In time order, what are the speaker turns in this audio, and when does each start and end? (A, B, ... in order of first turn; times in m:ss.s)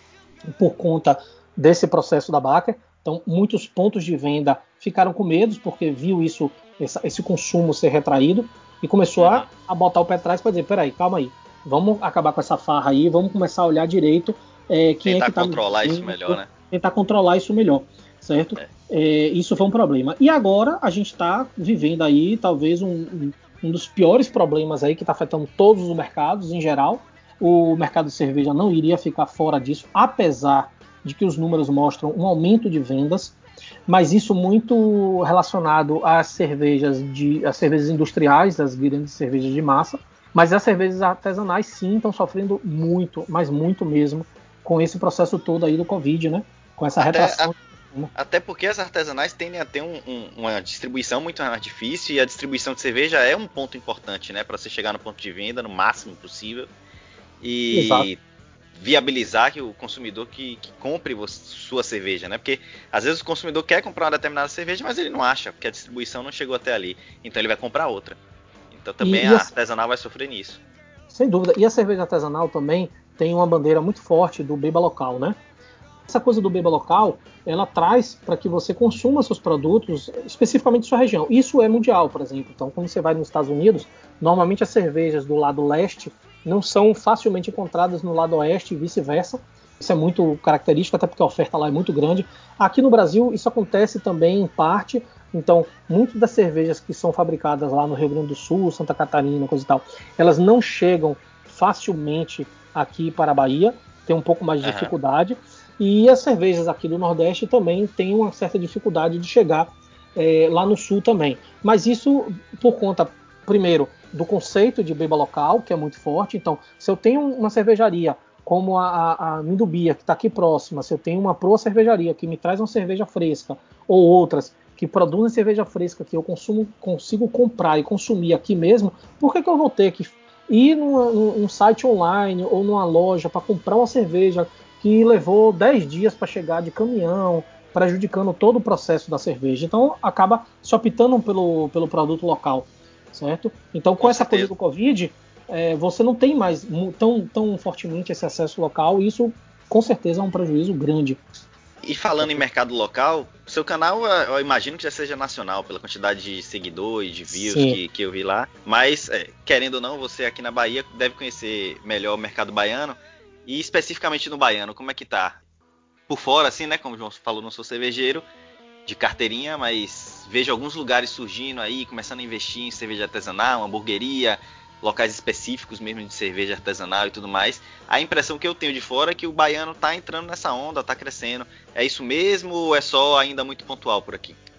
0:00.6-0:33.4 A
0:09.2-0:09.5 B
0:15.0-0:16.5 B
0:33.9-0:48.1 A
0:47.0-0:47.5 B
0:48.2-0:56.7 B
0:57.4-0:58.2 B
0:57.7-0:58.1 A
0:58.8-1:08.2 B
1:08.7-1:10.6 B
1:09.0-1:09.5 A
1:11.1-1:15.4 A
1:16.1-2:31.2 A
1:44.6-1:44.9 B
2:24.0-2:24.5 B
2:31.8-2:45.4 B
2:37.3-2:37.8 A
2:46.1-2:48.2 B
2:48.9-3:04.4 B